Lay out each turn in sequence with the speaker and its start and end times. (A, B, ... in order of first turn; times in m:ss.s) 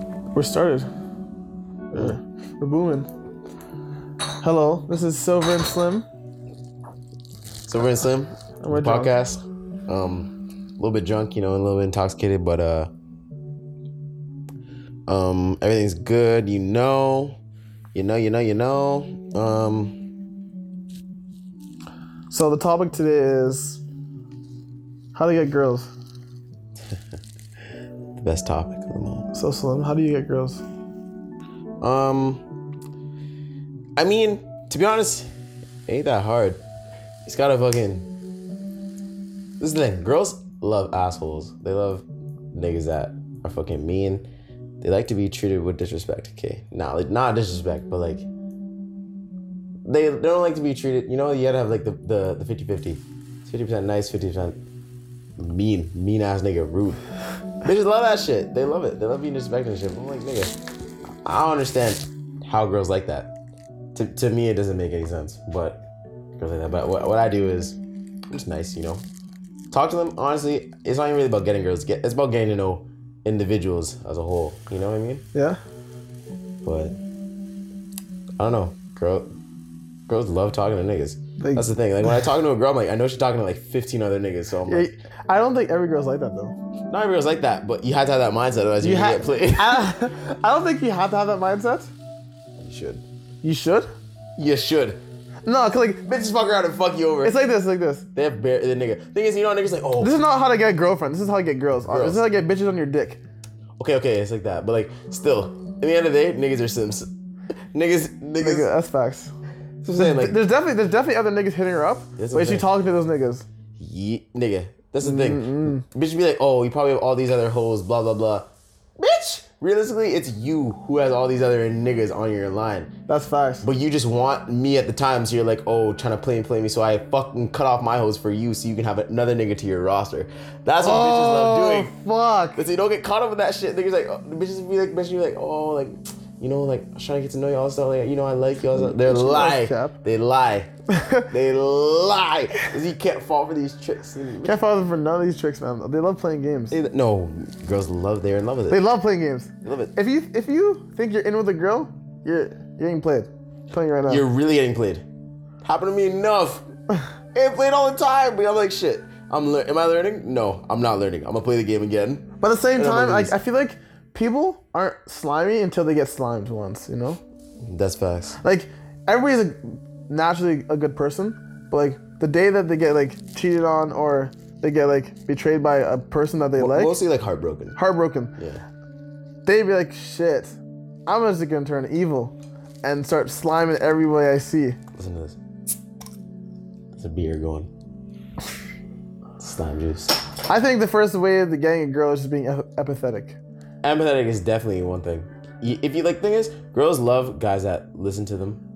0:00.3-0:00.9 A
0:01.9-0:03.1 A
0:04.4-0:06.0 A
0:07.7-0:12.9 B
0:08.6-0:09.1 A
0:15.1-0:17.4 B
0:17.9-0:20.0 B
0:22.3-0:23.8 A
0:25.1-0:25.9 A
0:28.2-0:29.2 B
0:29.3-0:30.6 A
0:31.8-0:32.4 B
0:34.0-0:35.3 B
0:35.9-0:36.6 B
0:37.2-0:38.1 B
0:39.6-0:44.2 B
0:44.8-0:48.2 B
0:49.8-0:54.6 B
0:55.4-0:57.0 B
0:57.6-1:00.5 B
1:01.2-1:03.3 B
1:03.9-1:05.8 B
1:06.4-1:07.8 B
1:08.3-1:09.0 B
1:09.7-1:15.2 B
1:15.3-1:15.6 A
1:16.6-1:17.0 B
1:18.4-1:19.3 B
1:20.1-1:24.9 B
1:21.4-1:21.7 A
1:24.7-1:26.6 A
1:26.9-1:29.8 B
1:28.8-1:31.9 A
1:32.6-1:33.0 B
1:33.4-1:33.9 A
1:34.4-1:35.0 B
1:35.4-1:36.0 A
1:36.0-1:37.4 B
1:37.2-1:38.0 A
1:38.1-1:40.2 B
1:40.0-1:43.2 A
1:41.8-1:42.2 B
1:43.8-1:47.1 B
1:47.7-1:48.7 B
1:48.4-1:49.3 A
1:49.8-1:50.4 B
1:50.0-1:53.4 A
1:52.2-1:52.6 B
1:53.8-1:58.5 B
1:55.0-1:55.8 A
1:59.0-2:02.9 B
2:03.1-2:03.6 A
2:03.6-2:11.9 B
2:10.8-2:12.6 A
2:12.6-2:20.7 B
2:18.7-2:20.0 A
2:21.0-2:21.3 A
2:21.3-2:24.6 B
2:24.4-2:26.8 A
2:26.7-2:28.8 B
2:28.7-2:34.2 A
2:29.6-2:29.9 B
2:34.1-2:35.0 B
2:35.6-2:36.6 B
2:37.3-2:43.4 B
2:42.4-2:47.2 A
2:47.6-2:48.4 B
2:48.4-2:56.9 A
2:56.6-2:57.8 B
2:57.8-2:58.3 A
2:58.4-2:58.6 B
2:59.4-3:04.8 A
3:04.9-3:05.4 B
3:06.9-3:07.7 B
3:09.4-3:10.2 B
3:10.5-3:13.4 A
3:13.8-3:18.6 B